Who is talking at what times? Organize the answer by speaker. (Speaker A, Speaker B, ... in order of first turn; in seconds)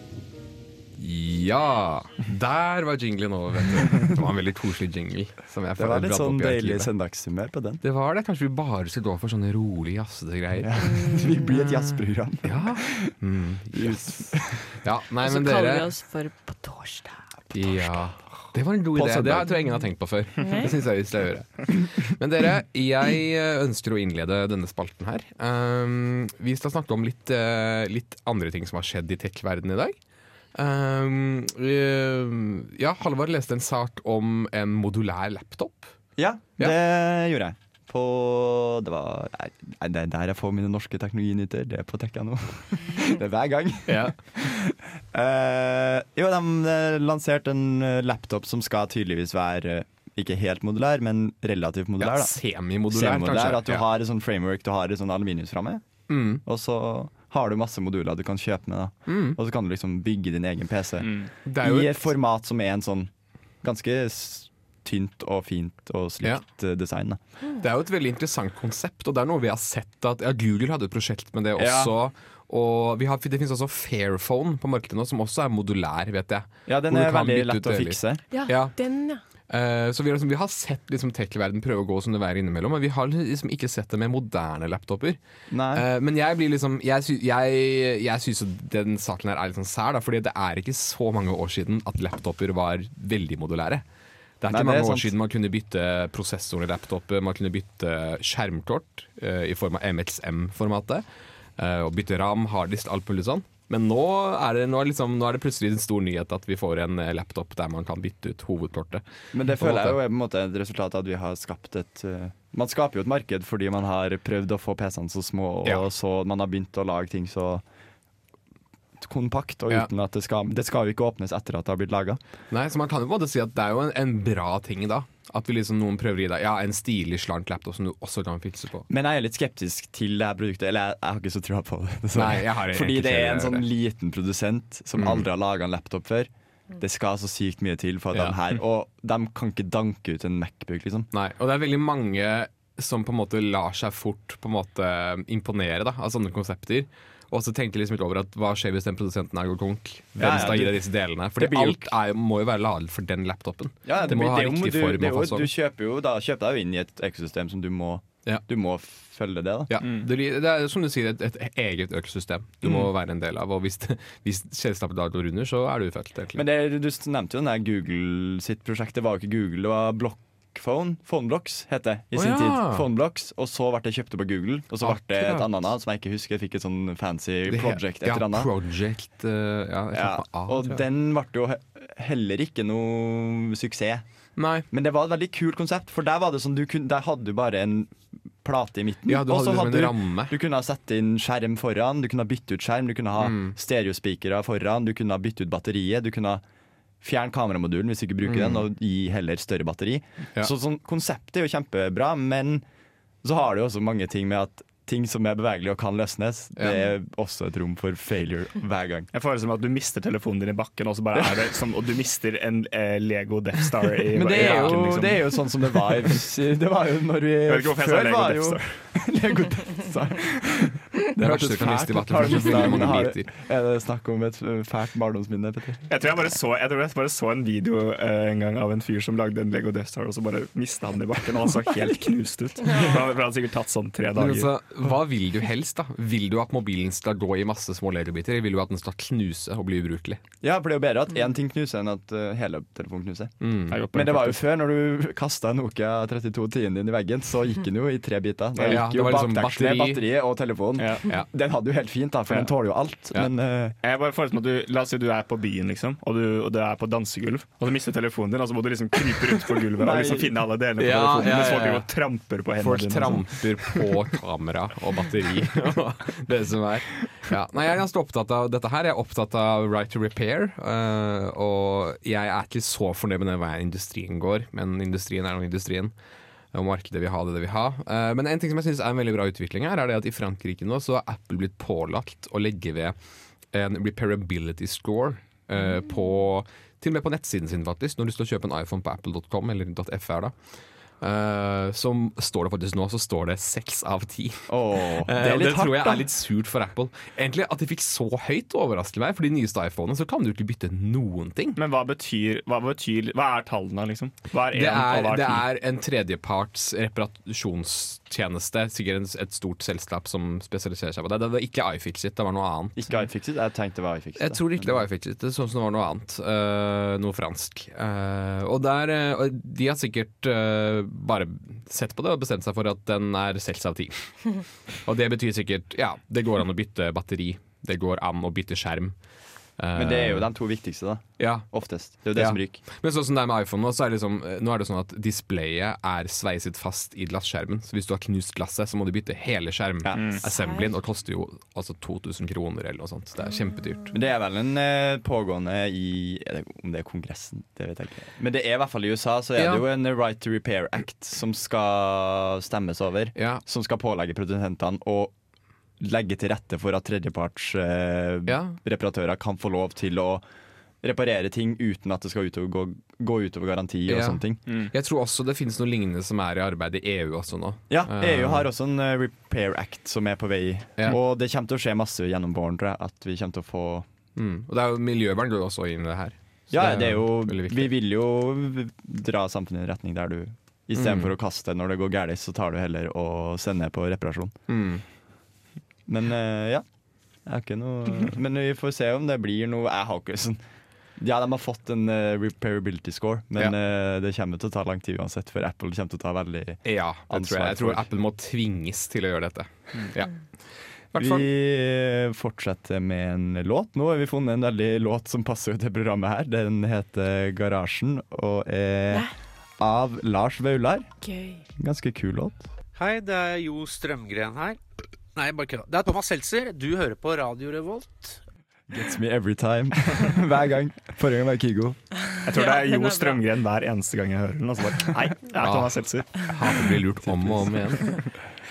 Speaker A: 1.0-6.9, 7.8-10.8, 11.4-15.9, 17.5-29.9, 30.6-35.9, 43.9-44.2, 52.0-53.9, 56.1-56.4, 59.1-59.4, 61.5-62.1, 67.6-78.7, 79.5-85.2, 85.7-93.8, 94.4-101.0, 101.6-109.0, 109.6-110.0, 122.5-128.9, 132.1-133.7, 135.0-135.3, 141.1-155.5, 159.7-166.4, 172.2-172.9, 174.8-175.5, 177.5-180.8, 184.4-184.7, 189.1-190.3, 193.2-193.6, 198.2-198.7, 214.3-215.2, 221.1-223.3, 234.2-240.2, 243.4-243.9, 248.7-250.0, 260.8-261.9, 262.6-275.9, 276.5-283.0, 283.5-290.3, 291.0-301.6, 304.5-312.8, 314.2-329.0, 329.6-330.3, 331.2-343.9, 349.4-349.6, 353.2-353.4, 358.3-358.6, 363.9-368.5, 374.2-377.7, 380.8-381.1, 384.5-384.8, 396.6-400.2, 400.9-401.3, 425.4-428.0
Speaker B: 5.8-7.8, 10.6-13.1, 13.7-14.6, 18.9-19.6, 36.2-52.4, 52.9-63.1, 63.6-67.2, 71.6-71.9, 76.7-78.2, 85.5-85.9, 94.5-95.1, 109.3-117.6, 119.0-122.2, 128.9-141.1, 150.2-151.9, 153.9-159.8, 162.6-162.9, 166.3-178.5, 179.9-184.1, 184.7-196.4, 197.0-202.7, 203.2-209.1, 211.1-211.5, 214.1-225.9, 240.4-243.3, 243.9-253.8, 259.8-260.4, 294.5-296.1, 312.8-314.9, 329.8-332.6, 339.8-340.2, 343.9-355.1, 355.8-360.2, 360.8-364.4, 367.7-373.9, 376.5-384.4, 385.9-386.6, 387.3-390.4, 391.0-397.9, 401.0-410.9, 411.6-412.4, 418.7-421.8, 427.1-427.4
Speaker C: 10.8-11.5, 15.2-17.6, 20.4-20.7, 78.3-79.2, 232.7-233.0, 340.3-340.6, 411.0-411.4, 422.1-423.2
Speaker D: 61.0-61.3, 159.8-160.1, 209.1-215.2, 217.5-218.6, 225.9-234.5, 243.7-244.4, 248.6-248.8, 250.8-251.1, 253.8-263.9, 301.6-305.4, 339.9-340.2, 422.2-426.2
Speaker E: 412.8-414.6, 415.1-418.2